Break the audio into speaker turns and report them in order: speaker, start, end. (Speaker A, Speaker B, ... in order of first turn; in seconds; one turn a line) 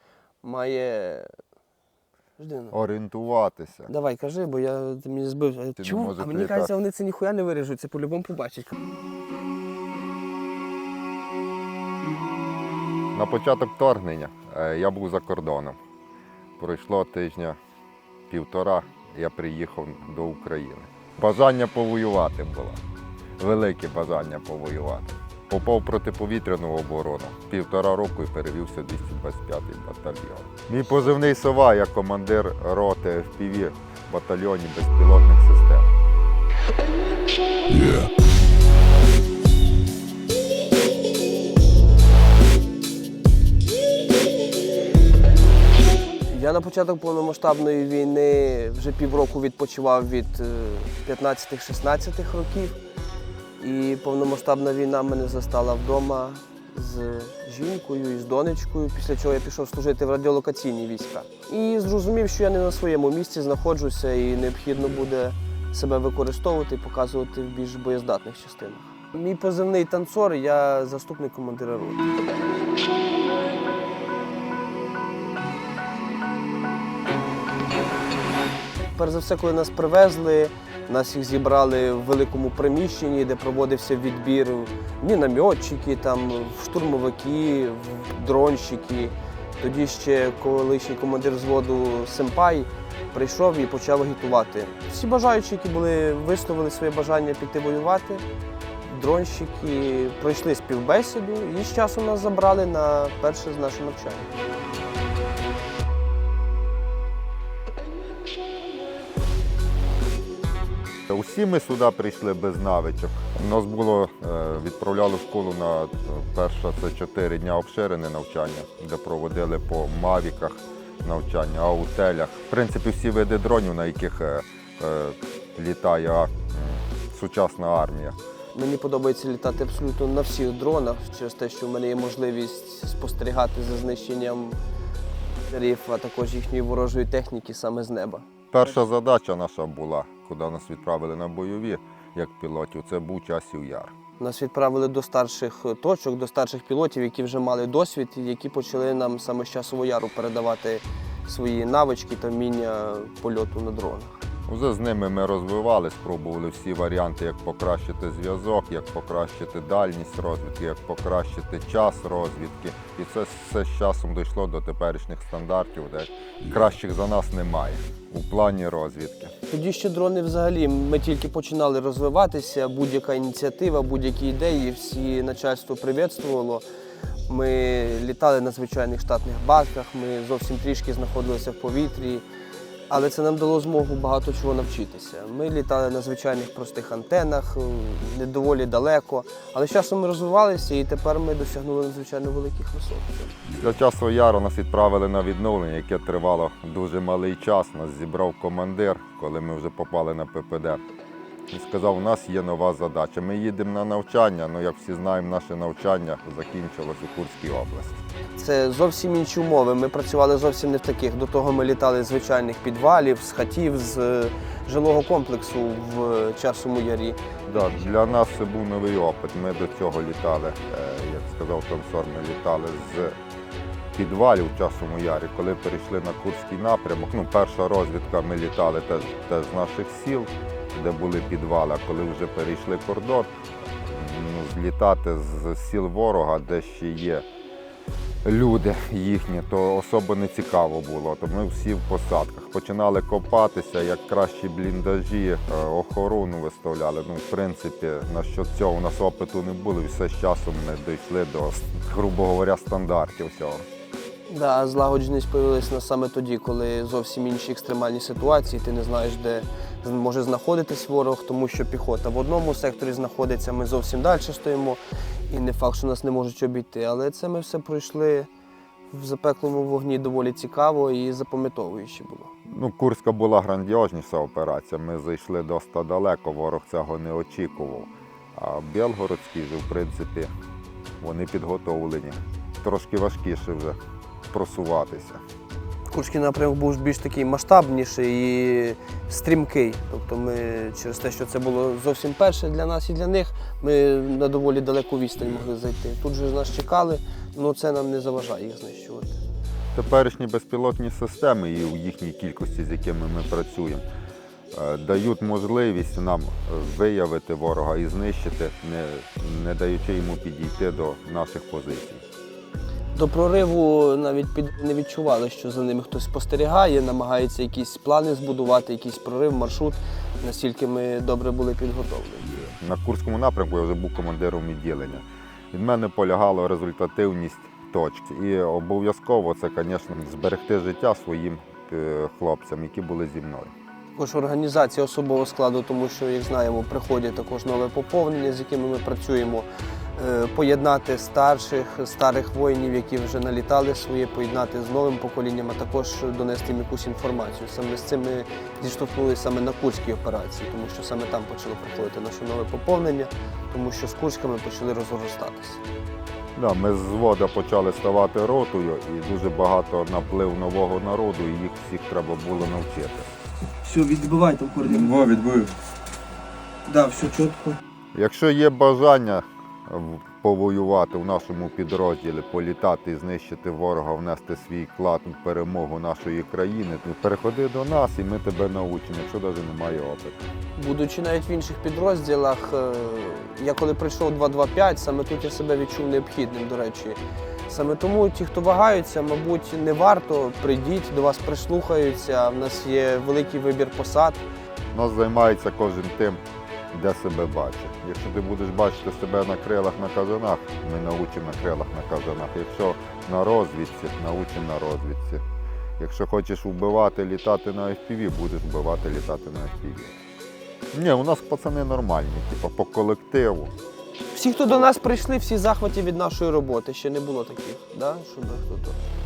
Speaker A: 0.4-1.3
Speaker A: 2.4-2.7
Speaker B: 2.7-3.9
Speaker A: 3.9-8.8
Speaker B: 5.8-6.7
Speaker B: 13.1-15.8
Speaker B: 16.6-17.6
Speaker B: 18.3-22.8
Speaker B: 23.4-35.9
Speaker A: 46.3-52.8
Speaker A: 53.6-72.0
Speaker A: 78.9-98.2
Speaker A: 98.8-104.3
Speaker B: 111.1-128.2
Speaker A: 128.5-134.6
Speaker A: 135.5-138.3
Speaker B: 138.5-143.9
Speaker A: 144.2-154.2
Speaker B: 154.5-169.3
Speaker A: 169.5-176.6
Speaker A: 177.3-182.2
Speaker A: 182.9-193.4
Speaker B: 193.5-200.8
Speaker B: 201.5-208.0
Speaker A: 208.3-217.2
Speaker B: 217.5-223.1
Speaker B: 223.9-237.2
Speaker B: 238.2-253.6
Speaker A: 254.3-268.3
Speaker A: 268.9-272.3
Speaker B: 272.5-280.3
Speaker B: 281.0-283.8
Speaker B: 284.3-285.2
Speaker A: 285.9-299.2
Speaker B: 299.7-303.8
Speaker B: 304.5-312.0
Speaker A: 312.9-322.4
Speaker B: 322.6-333.5
Speaker A: 333.9-355.6
Speaker B: 356.4-363.1
Speaker A: 363.6-365.0
Speaker B: 364.9-365.5
Speaker A: 366.7-367.6
Speaker B: 367.9-380.2
Speaker A: 380.6-394.2
Speaker B: 394.7-396.2
Speaker B: 396.7-405.2
Speaker B: 405.8-409.9
Speaker B: 410.7-413.5
Speaker A: 414.1-418.8